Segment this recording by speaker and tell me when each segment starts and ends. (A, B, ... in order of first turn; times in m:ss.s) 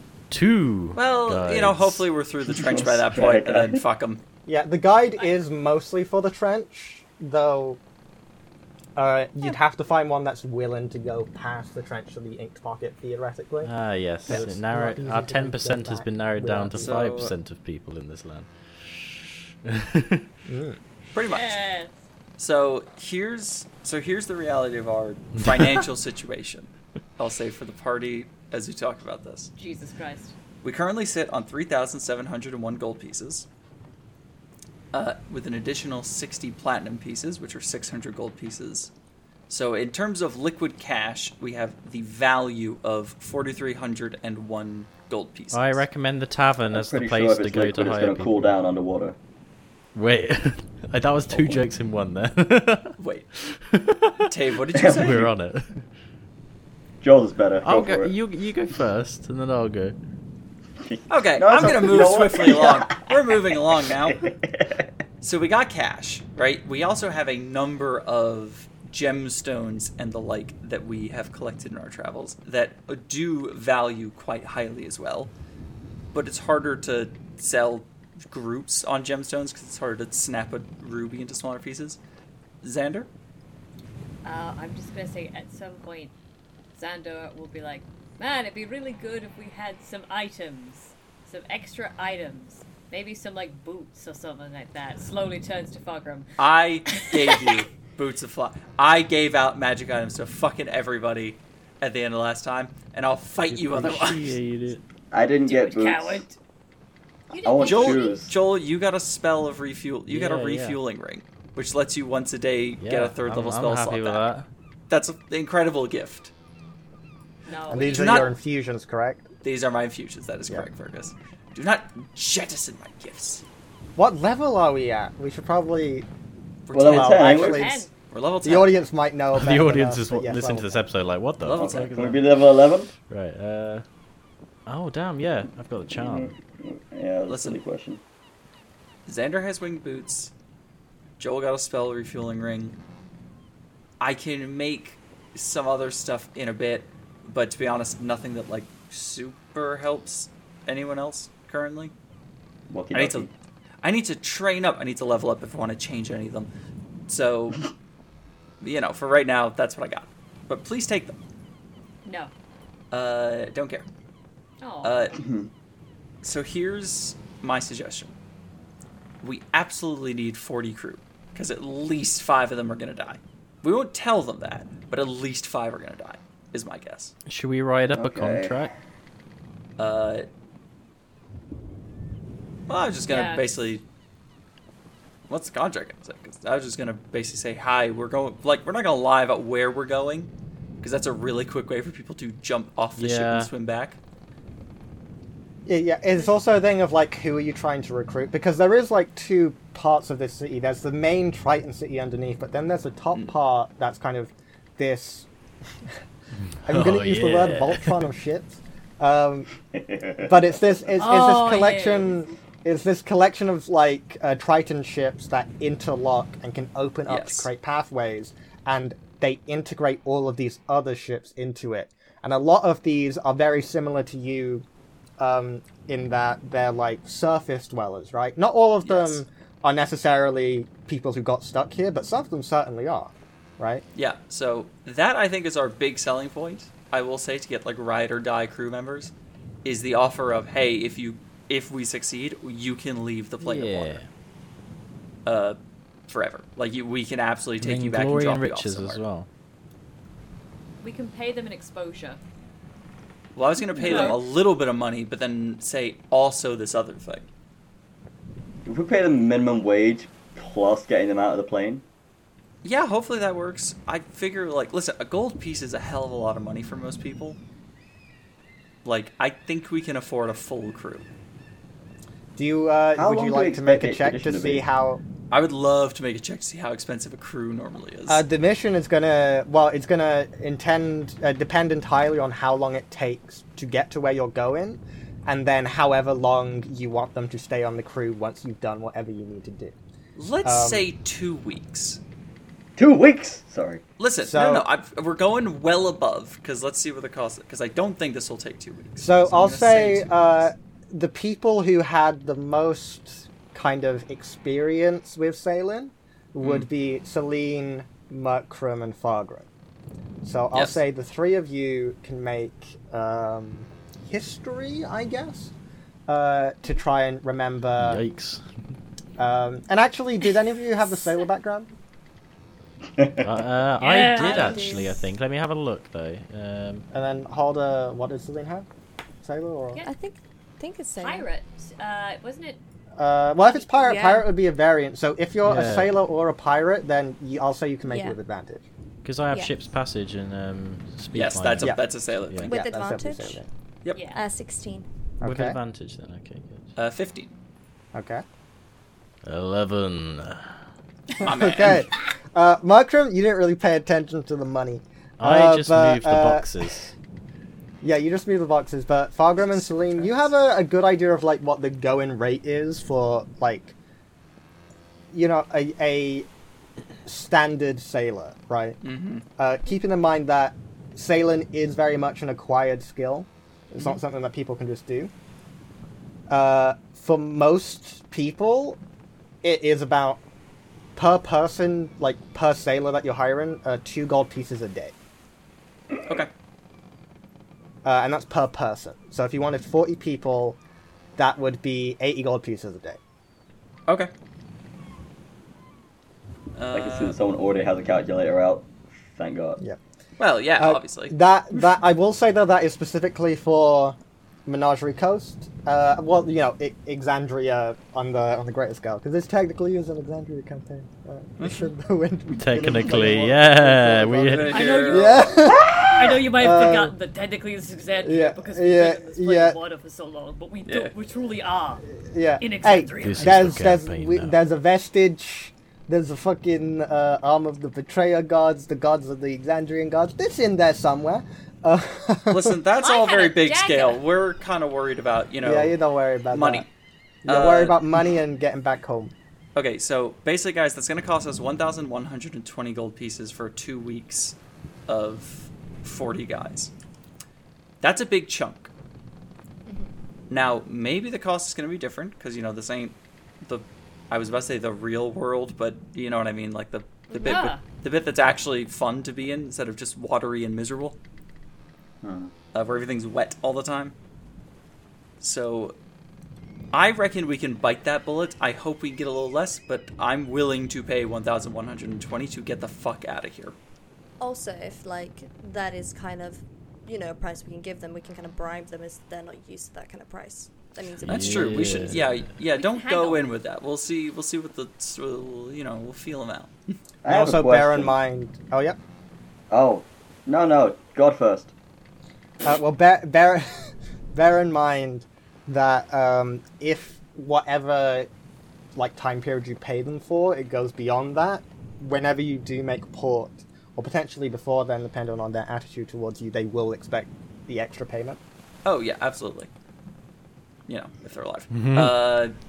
0:00.3-0:02.1 A
0:01.0-0:04.2 B
0:02.5-0:03.8 C
0:04.5-0:07.8 D
0:09.0-0:13.7 D
0:13.6-0:18.5 A
0:14.2-0:17.0 D
0:16.8-0:17.3 B
0:19.6-0:20.3 A
0:20.5-0:20.8 D
0:21.1-0:21.6 B
0:21.3-0:22.0 E
0:22.4-0:29.5 B
0:25.4-0:25.8 A
0:29.6-0:30.3 E
0:30.6-0:33.5 B
0:34.9-0:38.9 B
0:39.5-0:45.8 B
0:45.5-0:48.5 A
0:46.7-0:49.2 C
0:50.0-0:55.8 A
0:51.3-0:51.6 B
0:53.0-0:53.3 B
0:54.3-0:55.2 B
0:54.8-0:55.3 C
0:57.0-0:58.2 C
0:57.6-1:00.0 A
1:00.8-1:04.9 C
1:01.1-1:04.2 B
1:05.2-1:15.3 B
1:16.1-1:22.0 B
1:22.6-1:23.1 B
1:24.2-1:26.1 E
1:26.8-1:36.3 E
1:36.4-1:44.4 B
1:36.9-1:37.5 E
1:43.5-1:44.8 A
1:45.1-1:46.2 C
1:45.4-1:46.4 E
1:47.3-1:48.2 E
1:47.4-1:48.3 C
1:47.6-1:54.2 B
1:50.1-1:50.8 A
1:52.8-1:54.5 A
1:54.9-1:56.3 B
1:57.5-1:58.4 E
1:57.7-1:59.3 D
1:57.9-1:58.3 B
1:59.4-2:03.4 B
2:04.0-2:06.1 D
2:06.7-2:08.7 B
2:06.7-2:07.6 C
2:06.8-2:07.9 D
2:07.4-2:07.9 E
2:08.4-2:10.8 D
2:09.3-2:12.3 A
2:11.4-2:11.9 B
2:11.6-2:12.9 C
2:13.0-2:13.8 A
2:14.7-2:16.3 A
2:15.9-2:18.0 C
2:17.3-2:17.6 B
2:19.1-2:20.3 B
2:21.2-2:22.8 B
2:24.0-2:31.9 B
2:32.7-2:33.3 C
2:32.9-2:33.3 B
2:33.8-2:36.5 B
2:37.1-2:37.7 B
2:38.6-2:41.2 B
2:42.0-2:42.3 E
2:42.9-2:43.9 B
2:44.6-2:45.1 E
2:44.8-2:45.2 B
2:45.2-2:45.5 C
2:46.2-2:48.2 B
2:49.2-2:57.1 B
2:57.3-2:58.7 A
2:57.9-2:58.6 C
2:59.8-3:00.3 B
3:02.7-3:03.8 B
3:03.1-3:03.4 E
3:05.3-3:10.3 B
3:10.8-3:14.0 B
3:13.0-3:13.5 A
3:15.7-3:25.3 D
3:26.5-3:28.0 A
3:26.7-3:29.5 D
3:29.7-3:30.4 C
3:30.2-3:44.6 D
3:31.0-3:32.2 E
3:37.1-3:37.5 B
3:45.2-3:53.8 D
3:48.8-3:49.2 B
3:54.0-3:59.1 B
3:59.6-4:04.0 B
4:03.4-4:04.1 A
4:05.3-4:09.0 B
4:07.6-4:09.3 A
4:10.8-4:12.2 E
4:13.4-4:17.3 B
4:13.8-4:14.2 E
4:18.7-4:21.8 C
4:22.6-4:27.4 B
4:28.8-4:31.1 B
4:32.4-4:35.0 D
4:33.0-4:34.6 C
4:35.3-4:38.2 B
4:38.1-4:49.8 D
4:50.2-4:52.0 B
4:50.4-4:50.9 D
4:52.8-4:53.8 C
4:54.0-5:00.3 B
4:54.2-4:54.7 D
4:59.0-5:09.5 D
5:06.4-5:06.7 B
5:10.2-5:15.5 D
5:10.5-5:10.8 B
5:16.1-5:18.0 D
5:17.8-5:18.4 A
5:19.2-5:21.7 D
5:23.0-5:23.3 C
5:23.2-5:26.8 A
5:23.8-5:24.9 E
5:23.9-5:25.0 F
5:26.9-5:28.7 D
5:29.2-5:29.8 D
5:29.8-5:31.3 F
5:31.0-5:32.6 E
5:33.0-5:38.7 D
5:33.7-5:34.2 F
5:35.4-5:35.9 A
5:37.8-5:38.2 F
5:39.0-5:42.5 A
5:39.3-5:39.5 F
5:41.1-5:42.5 B
5:42.5-5:43.4 F
5:42.5-5:43.5 D
5:43.9-5:44.2 E
5:44.1-5:44.9 F
5:45.2-5:45.6 D
5:45.2-5:46.7 A
5:46.8-5:47.3 B
5:47.9-5:48.2 D
5:49.2-5:50.5 A
5:51.2-5:51.9 B
5:51.2-5:56.7 D
5:55.2-5:56.9 A
5:57.8-6:03.8 D
5:59.4-6:00.3 B
6:05.1-6:06.3 D
6:07.0-6:08.8 D
6:08.8-6:09.2 B
6:09.4-6:15.1 D
6:16.3-6:18.8 D
6:19.4-6:20.2 D
6:21.0-6:24.9 D
6:26.0-6:26.3 B
6:27.8-6:30.6 D
6:31.2-6:33.0 D
6:36.6-6:37.2 B
6:36.7-6:39.6 C
6:40.2-6:41.2 B
6:40.6-6:57.0 D
6:51.4-6:51.7 B
6:52.4-6:54.6 A
6:54.2-6:55.3 B
6:54.5-7:01.8 E
6:58.0-6:59.6 D
7:00.7-7:00.9 B
7:02.0-7:12.6 D
7:02.4-7:03.6 E
7:03.0-7:04.3 A
7:12.3-7:15.8 B
7:12.8-7:14.0 E
7:15.4-7:16.7 D
7:16.3-7:16.7 B
7:17.2-7:19.1 D
7:17.3-7:17.8 B
7:19.6-7:24.4 B
7:24.9-7:26.7 B
7:27.8-7:28.7 B
7:30.3-7:41.0 B
7:37.1-7:37.5 F
7:37.2-7:37.6 E
7:42.0-7:42.3 C
7:42.5-7:43.9 B
7:45.2-7:45.8 B
7:46.7-7:53.6 B
7:54.2-8:01.9 F
8:01.0-8:02.3 A
8:01.1-8:06.5 B
8:02.6-8:03.2 E
8:07.0-8:07.9 C
8:07.1-8:08.8 D
8:09.5-8:11.5 C
8:12.4-8:13.5 D
8:14.1-8:18.1 D
8:18.8-8:28.2 D
8:28.6-8:29.5 B
8:30.7-8:32.4 B
8:31.5-8:31.9 A